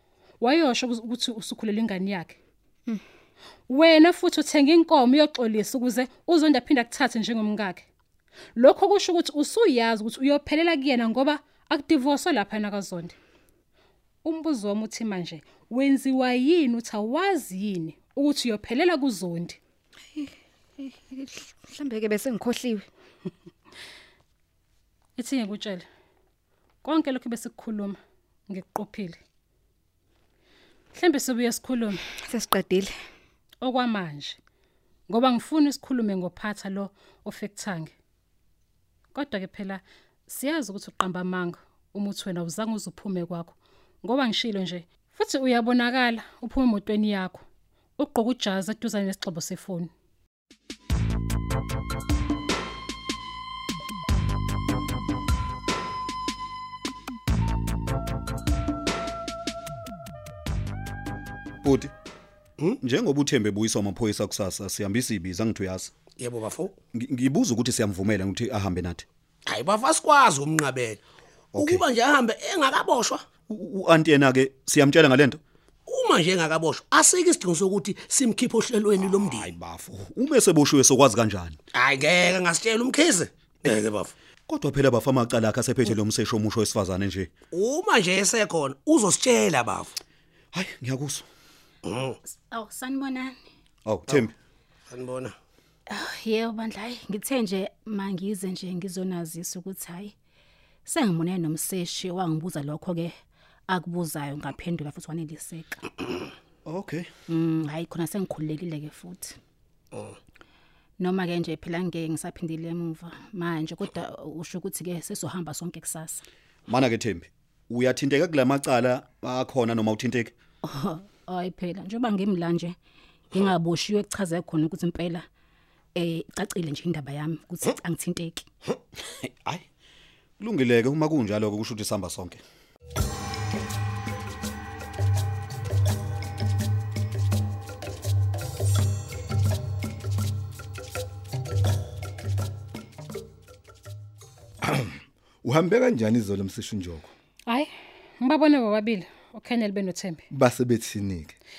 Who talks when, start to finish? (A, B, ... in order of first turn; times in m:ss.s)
0:00.4-0:02.4 A
0:03.7-0:07.8 A
0:08.5-0:13.2 A
0:14.2-0:19.6 A
0:20.1-0:22.9 B
0:25.2-0:25.8 A
0:26.8-0:28.0 A
0:28.5-0:29.2 A
0:30.9-0:32.0 A
0:32.2-0:32.9 B
0:33.6-0:34.4 A
0:35.1-0:37.9 A
0:39.1-0:47.4 A
0:48.0-0:49.9 A
1:01.6-1:01.9 C
1:02.8-1:05.9 C
1:06.2-1:06.7 D
1:06.9-1:09.0 C
1:09.5-1:11.0 D
1:11.5-1:11.8 C
1:11.6-1:13.2 D
1:13.5-1:15.4 C
1:15.9-1:19.5 D
1:19.0-1:21.6 C
1:21.7-1:24.1 D
1:24.5-1:27.3 C
1:27.5-1:29.9 D
1:30.5-1:31.2 C
1:31.8-1:32.2 D
1:32.3-1:33.4 E
1:33.8-1:34.3 C
1:34.9-1:35.4 D
1:35.9-1:40.1 E
1:40.8-1:43.1 E
1:43.7-1:45.9 E
1:46.6-1:47.1 C
1:47.3-1:49.4 E
1:51.0-1:56.2 E
1:56.7-2:00.3 C
2:00.6-2:02.7 E
2:03.3-2:05.2 E
2:05.9-2:08.5 E
2:09.2-2:09.6 C
2:10.4-2:12.4 C
2:24.6-2:27.1 F
2:27.5-2:30.2 A
2:30.3-2:31.4 F